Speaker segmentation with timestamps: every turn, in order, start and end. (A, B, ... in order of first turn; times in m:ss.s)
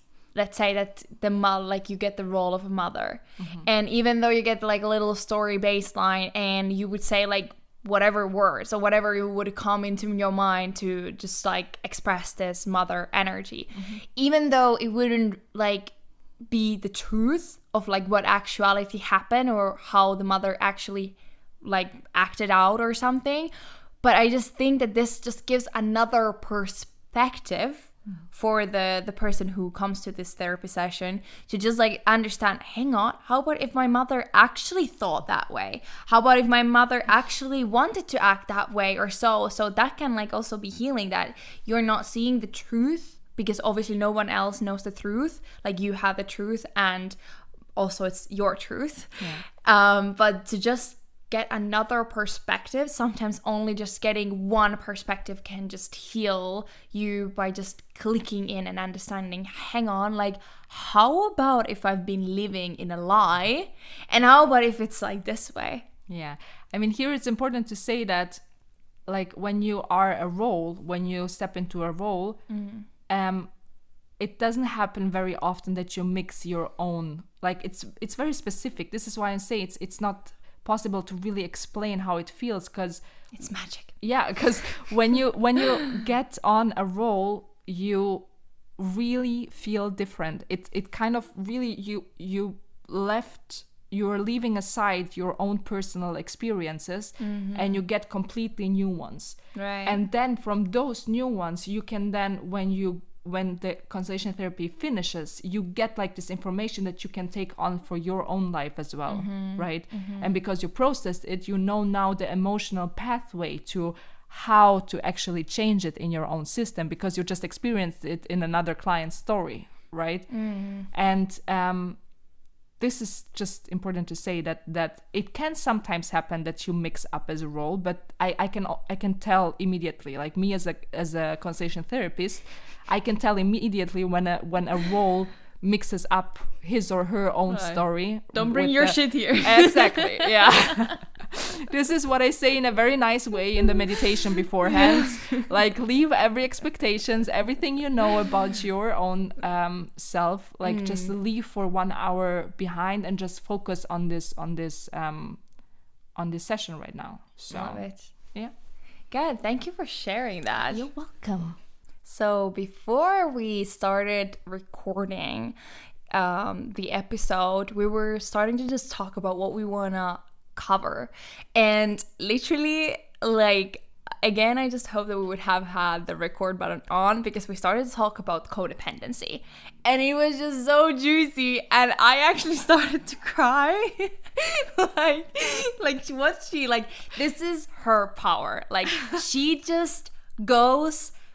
0:00.3-0:15.9 A
0:03.4-0:03.7 B
0:13.7-0:14.0 B
0:16.5-0:23.5 A
0:24.0-0:47.2 A
0:47.8-1:05.9 A
0:49.2-0:49.4 B
1:06.1-1:08.4 B
1:09.1-1:12.4 B
1:12.5-1:12.9 A
1:13.1-1:13.5 B
1:14.2-1:23.0 B
1:23.3-1:24.0 A
1:24.0-2:00.3 B
1:37.2-1:37.8 A
1:39.6-1:40.0 A
1:49.1-1:50.3 A
2:00.3-2:00.9 A
2:00.9-2:02.0 B
2:02.8-2:35.4 B
2:17.5-2:17.8 A
2:18.3-2:21.0 A
2:25.0-2:25.4 A
2:30.6-2:31.1 A
2:36.2-2:38.5 B
2:37.5-2:38.1 A
2:39.1-2:40.8 A
2:40.7-2:41.6 B
2:42.0-2:45.6 A
2:46.1-3:11.1 A